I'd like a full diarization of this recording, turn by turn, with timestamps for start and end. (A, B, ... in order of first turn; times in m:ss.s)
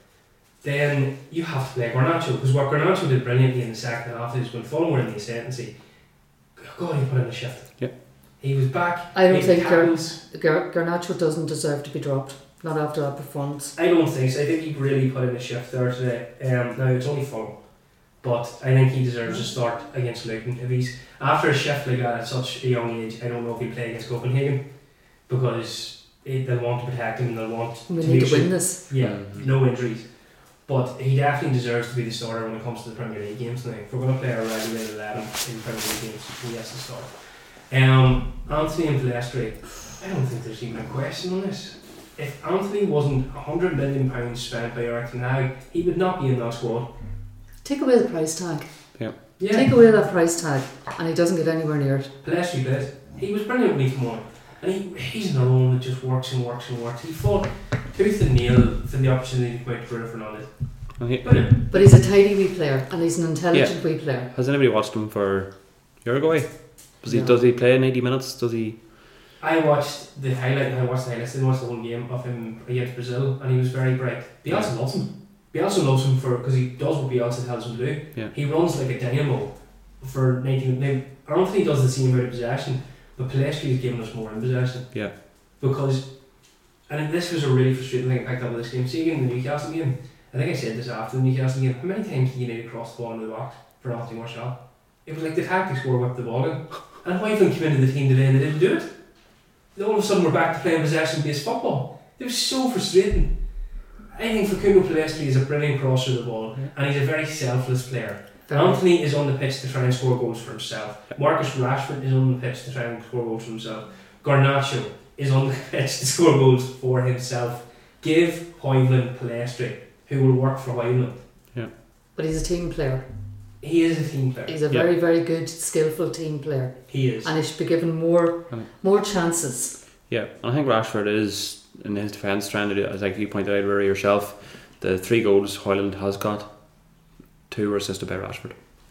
0:00.6-0:05.8 A
0:06.5-0:10.2 A
0:09.1-0:13.7 B
0:13.7-0:47.0 A
0:27.9-0:28.8 B
0:29.0-0:29.5 C
0:47.6-0:52.1 B
0:49.4-0:49.7 A
0:52.2-1:01.6 A
1:01.0-1:01.5 C
1:01.5-1:04.3 B
1:03.5-1:08.8 C
1:07.0-1:07.4 B
1:09.4-2:01.3 A
1:14.5-1:14.9 C
1:48.5-1:48.8 B
2:02.1-2:03.1 B
2:03.6-2:04.6 A
2:04.5-2:09.8 B
2:06.9-2:07.3 A
2:10.1-2:16.9 C
2:17.5-2:18.6 C